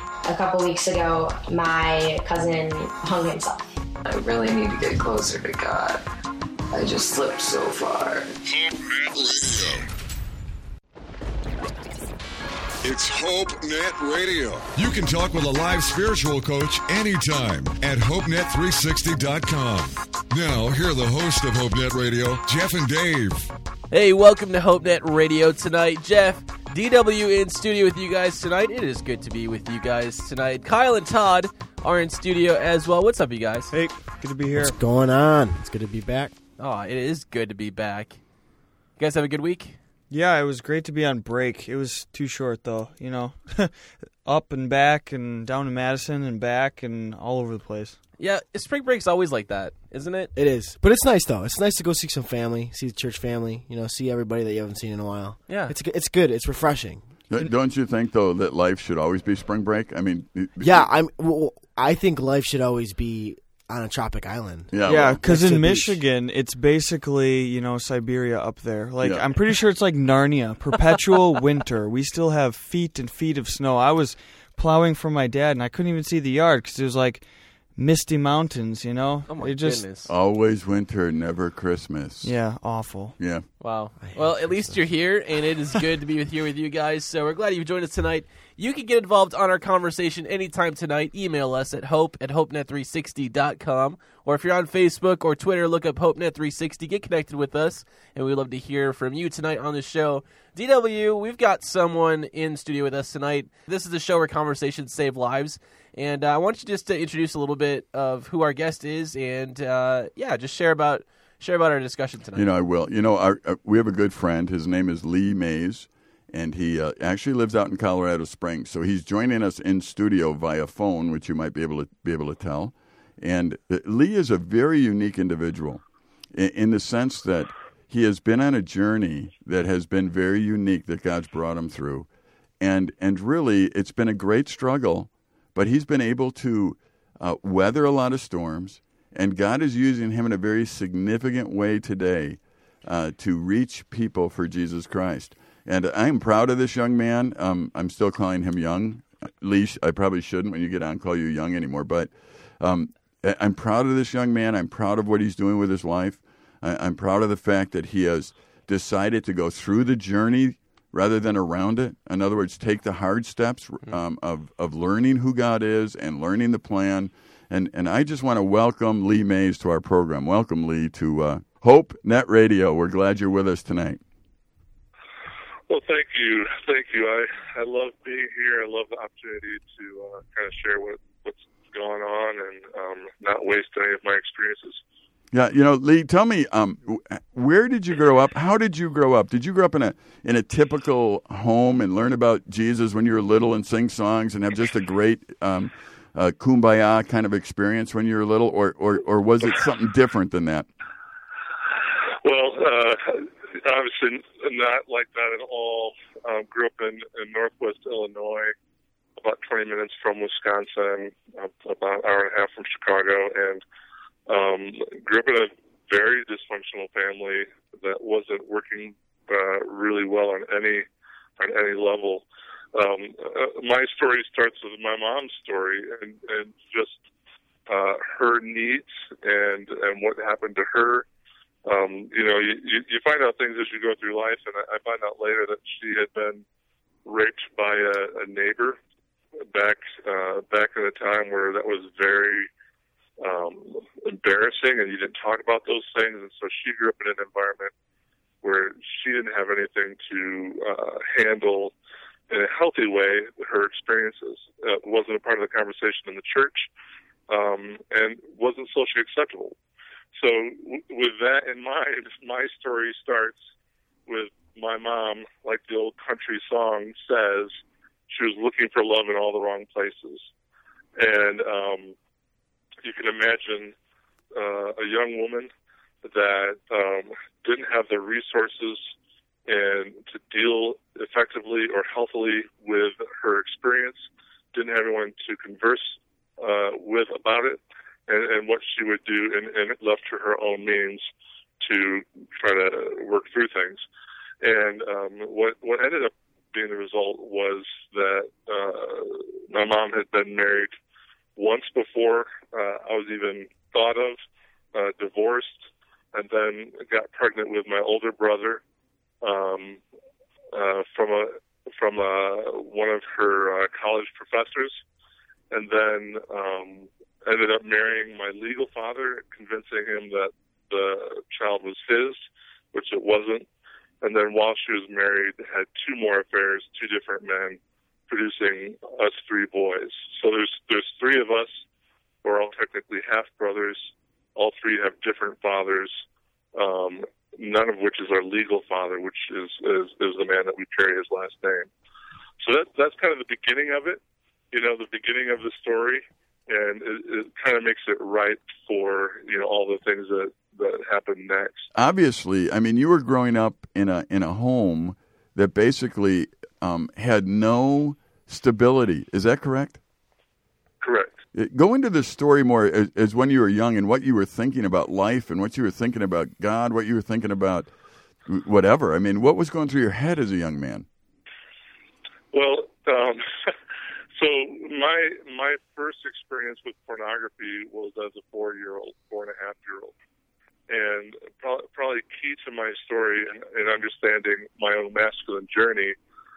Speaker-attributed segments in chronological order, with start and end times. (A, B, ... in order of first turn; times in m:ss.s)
0:00.2-0:03.7 A
0:04.0-0:06.0 B
0:06.7-0:08.3 B
0:08.4-0:09.9 C
0:12.8-0:23.5 C
0:23.9-0:33.7 D
0:33.7-0:34.8 E
0:34.5-0:36.3 F
0:36.6-0:38.2 D
0:39.0-0:39.8 D
0:40.1-0:48.0 E
0:48.2-0:50.3 D
0:50.3-0:57.1 F
0:55.5-0:55.7 D
0:57.3-1:00.9 G
1:00.6-1:06.0 F
1:04.7-1:05.2 G
1:04.8-1:19.9 E
1:19.3-1:20.1 D
1:20.1-1:22.3 G
1:22.2-1:23.2 E
1:23.2-1:23.4 G
1:23.6-1:52.5 D
1:24.0-1:24.8 F
1:52.4-2:05.8 G
2:06.3-2:12.1 G
2:12.6-2:54.0 G
2:55.7-3:04.8 H
3:05.3-3:20.7 G
3:22.2-3:28.5 H
3:29.2-3:33.6 H
3:34.3-3:40.9 H
3:41.4-3:47.0 H
3:47.7-3:51.1 H
3:51.6-3:56.4 H
3:57.0-3:58.8 H
3:59.5-4:02.5 H
4:03.2-4:07.7 H
4:08.4-4:11.7 H
4:12.3-4:16.7 H
4:17.3-4:19.5 H
4:20.1-4:23.4 H
4:24.1-4:27.5 H
4:28.1-4:30.3 H
4:31.0-4:31.9 H
4:32.8-4:33.8 H
4:34.3-4:35.5 H
4:36.0-4:38.9 H
4:39.5-4:51.1 H
4:51.6-4:53.8 H
4:54.4-5:00.7 H
5:01.4-5:04.2 H
5:04.7-5:08.6 H
5:09.2-5:09.8 H
5:10.5-5:14.8 H
5:15.5-5:22.2 H
5:22.7-5:23.4 H
5:24.0-5:31.6 H
5:32.2-5:36.0 H
5:36.5-5:41.7 H
5:42.4-5:44.0 H
5:44.5-5:51.7 H
5:51.8-5:59.8 G
6:00.8-6:01.2 H
6:01.3-6:07.7 G
6:08.2-6:10.8 G
6:12.3-6:13.5 H
6:14.2-6:19.9 H
6:20.7-6:25.9 H